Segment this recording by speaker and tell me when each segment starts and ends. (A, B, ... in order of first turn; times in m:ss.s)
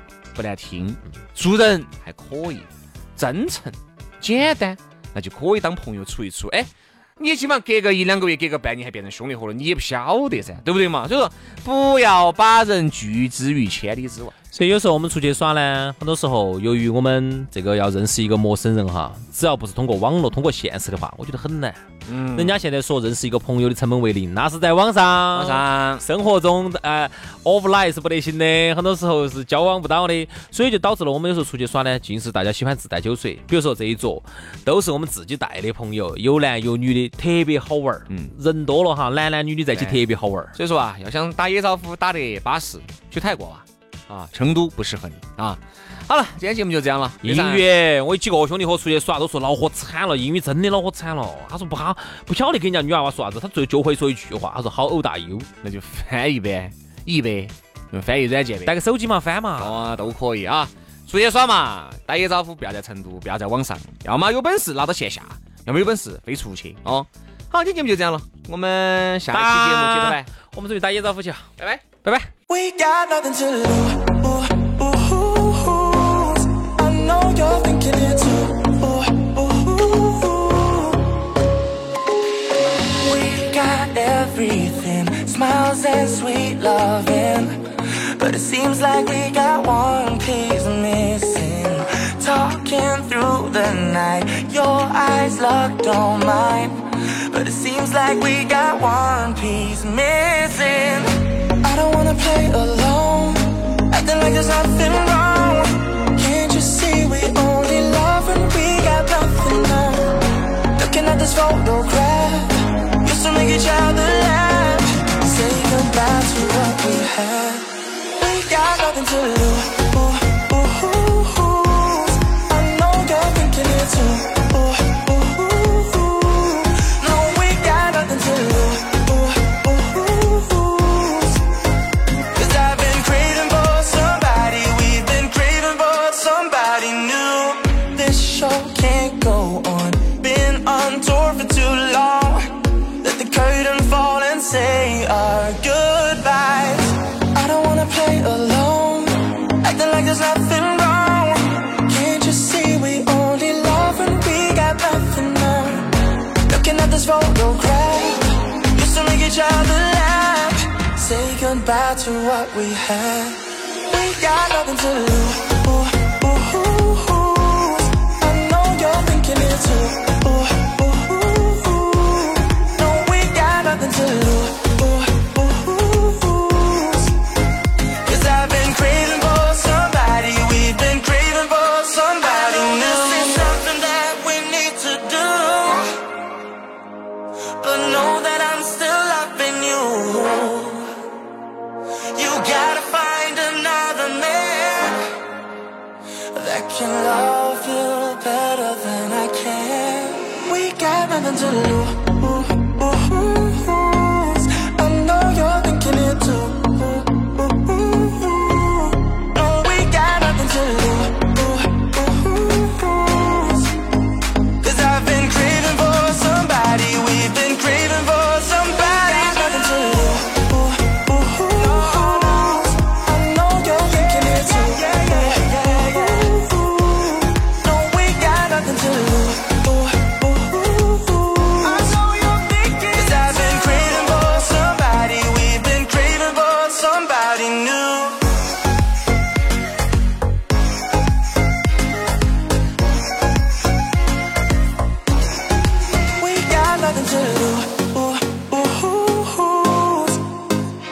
0:00.3-0:14.3 A
0:14.5-0:21.8 B
0:22.0-0:22.6 A
0:22.3-0:40.5 B
0:25.3-0:26.0 A
0:38.1-0:38.3 A
0:39.7-0:40.0 A
0:40.5-0:47.6 A
0:47.2-0:55.5 B
0:55.6-0:58.7 A
0:58.6-0:59.8 B
0:59.6-1:10.3 A
1:09.3-1:11.5 B
1:11.6-1:12.2 A
1:12.5-1:21.1 C
1:23.0-1:50.2 C
1:50.7-2:11.4 C
2:12.3-2:35.9 C
2:36.5-2:57.2 C
2:58.0-3:06.1 C
3:07.6-3:11.0 C
3:12.0-3:15.2 C
3:16.3-3:33.8 C
3:34.6-3:58.4 C
4:06.2-4:10.3 C